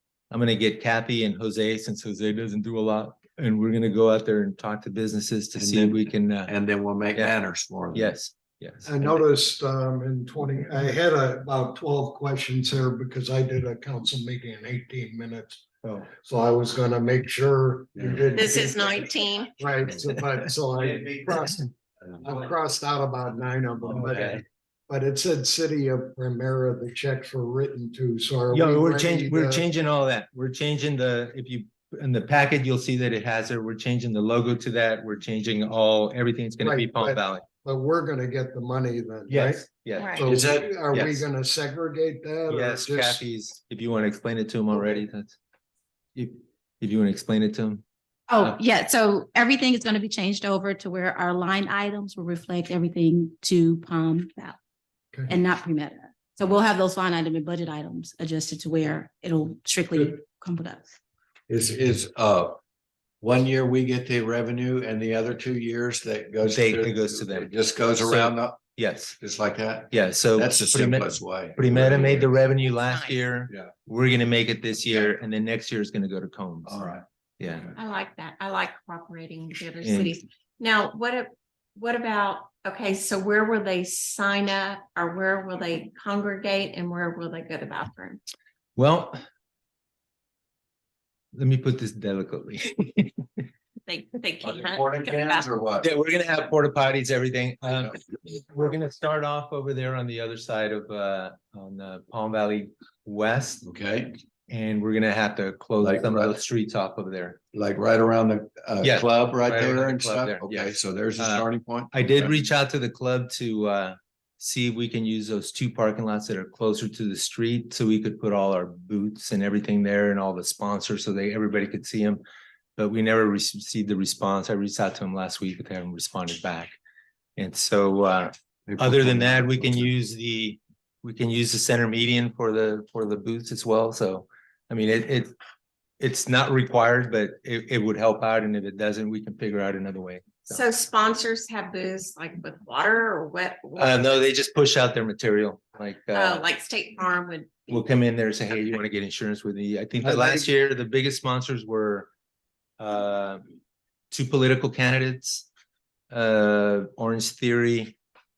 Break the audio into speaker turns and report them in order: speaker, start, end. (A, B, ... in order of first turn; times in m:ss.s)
0:00.3-0:06.5 A
0:05.6-0:08.1 B
0:07.9-0:09.2 A
0:08.8-0:19.0 C
0:18.0-0:18.5 B
0:18.3-0:19.6 D
0:19.6-0:21.7 C
0:20.7-0:21.4 B
0:22.1-0:22.4 B
0:22.2-0:29.7 C
0:23.8-0:24.4 B
0:28.5-0:37.4 A
0:36.6-0:43.2 C
0:39.3-0:40.3 A
0:40.0-0:40.3 D
0:40.2-0:40.8 B
0:40.9-0:41.2 A
0:42.5-0:45.4 A
0:46.2-0:47.8 A
0:48.3-0:54.6 E
0:55.3-1:00.9 E
1:01.5-1:02.6 B
1:03.2-1:08.6 B
1:06.4-1:09.2 A
1:09.2-1:12.4 B
1:09.9-1:17.8 A
1:16.6-1:17.0 B
1:17.8-1:28.2 D
1:19.8-1:20.1 A
1:28.8-1:29.2 A
1:31.3-1:33.3 A
1:33.9-1:35.5 D
1:34.4-1:35.9 B
1:35.8-1:43.6 A
1:43.6-1:44.2 B
1:44.5-1:47.4 A
1:45.8-1:46.3 B
1:47.5-1:52.3 B
1:48.8-2:02.2 A
2:02.8-2:06.8 A
2:07.4-2:15.3 A
2:08.7-2:09.9 B
2:16.0-2:20.6 A
2:20.5-2:24.0 D
2:23.8-2:26.4 A
2:26.1-2:27.8 D
2:27.7-2:32.1 A
2:32.8-2:33.4 A
2:34.1-2:35.5 A
2:36.1-2:38.0 A